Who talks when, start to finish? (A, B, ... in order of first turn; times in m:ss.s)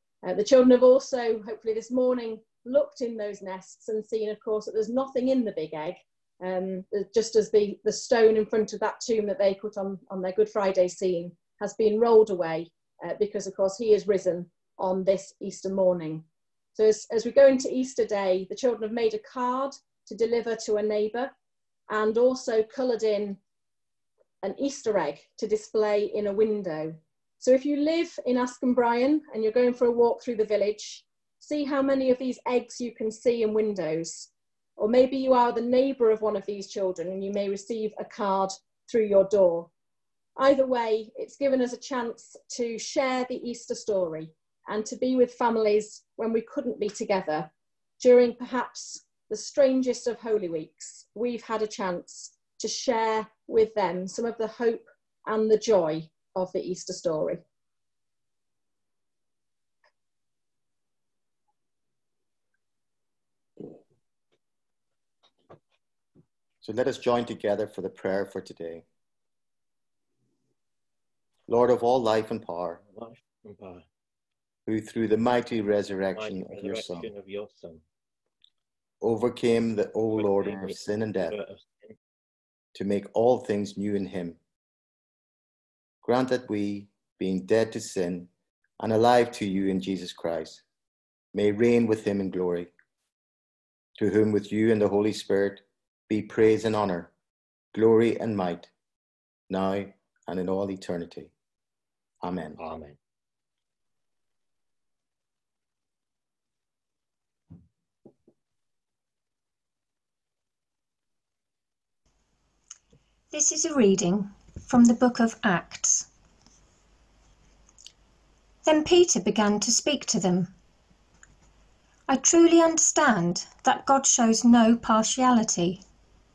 0:00.2-0:21.3 A
0:21.9-0:23.4 A
0:24.4-0:39.7 A
0:40.4-0:57.4 A
1:06.6-1:08.8 B
1:11.5-1:12.8 B
1:12.9-1:13.8 C
1:14.7-1:17.1 B
1:16.2-1:17.8 C
1:19.0-1:21.4 B
1:20.2-1:22.0 C
1:22.7-1:24.4 B
1:26.0-1:30.6 B
1:31.3-1:32.7 B
1:34.0-1:37.1 B
1:37.7-1:38.7 B
1:39.5-1:41.3 B
1:42.2-1:42.6 B
1:42.6-1:43.0 C
1:53.3-1:56.1 D
1:58.6-2:00.5 D
2:02.1-2:05.8 D